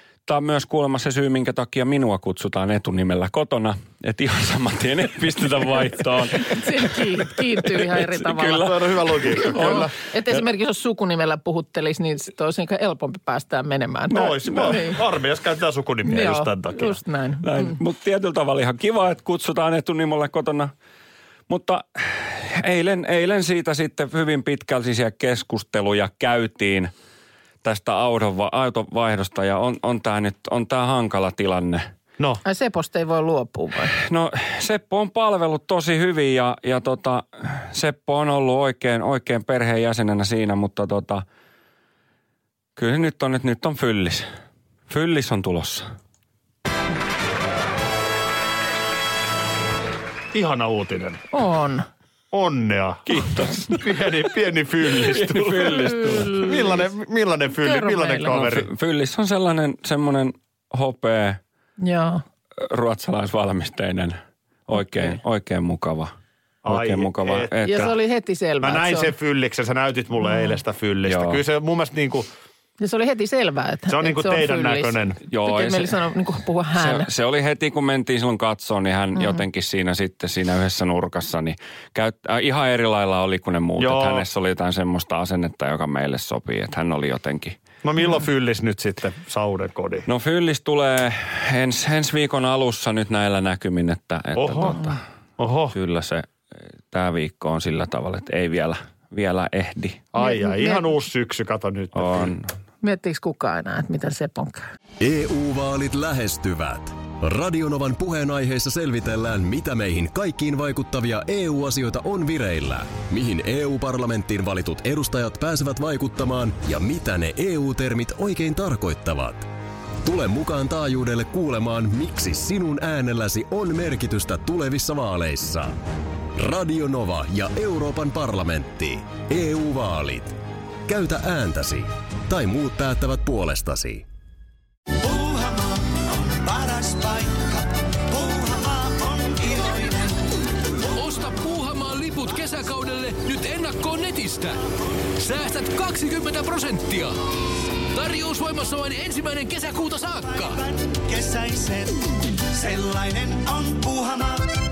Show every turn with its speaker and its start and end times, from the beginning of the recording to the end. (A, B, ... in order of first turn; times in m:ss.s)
0:00.3-0:09.9 A
0:06.4-0:08.7 B
0:08.4-0:09.9 C
0:09.5-0:15.0 B
0:14.1-0:17.0 C
0:14.2-0:14.9 A
0:16.0-0:17.8 B
0:17.4-0:20.7 A
0:21.5-0:26.9 A
0:27.6-0:31.9 A
0:32.4-0:33.9 B
0:34.0-0:41.2 A
0:42.8-0:44.3 A
0:44.9-0:45.9 A
0:50.3-0:51.2 C
0:51.3-0:51.9 B
0:52.3-0:58.7 C
0:53.1-0:53.9 A
0:55.0-0:56.6 A
0:57.6-0:58.3 B
0:58.3-1:01.4 A
1:01.8-1:02.2 B
1:02.6-1:04.2 A
1:04.7-1:06.1 A
1:06.6-1:08.0 C
1:06.7-1:07.9 A
1:07.6-1:09.1 B
1:08.6-1:12.3 C
1:11.1-1:11.4 A
1:12.8-1:17.1 B
1:13.9-1:15.2 C
1:15.3-1:16.0 A
1:16.8-1:27.6 A
1:23.8-1:24.2 C
1:27.8-1:30.1 C
1:30.1-1:35.0 A
1:34.4-1:34.9 C
1:35.4-1:35.8 C
1:35.7-1:36.3 A
1:36.9-1:40.0 A
1:40.1-1:42.3 C
1:40.2-1:40.8 B
1:42.0-1:42.5 A
1:42.8-1:44.6 B
1:45.0-1:59.5 D
2:00.0-2:05.8 D
2:06.4-2:14.0 D
2:15.0-2:20.4 E
2:20.9-2:24.6 F
2:25.2-2:27.2 F
2:27.9-2:30.6 F
2:30.3-2:34.5 E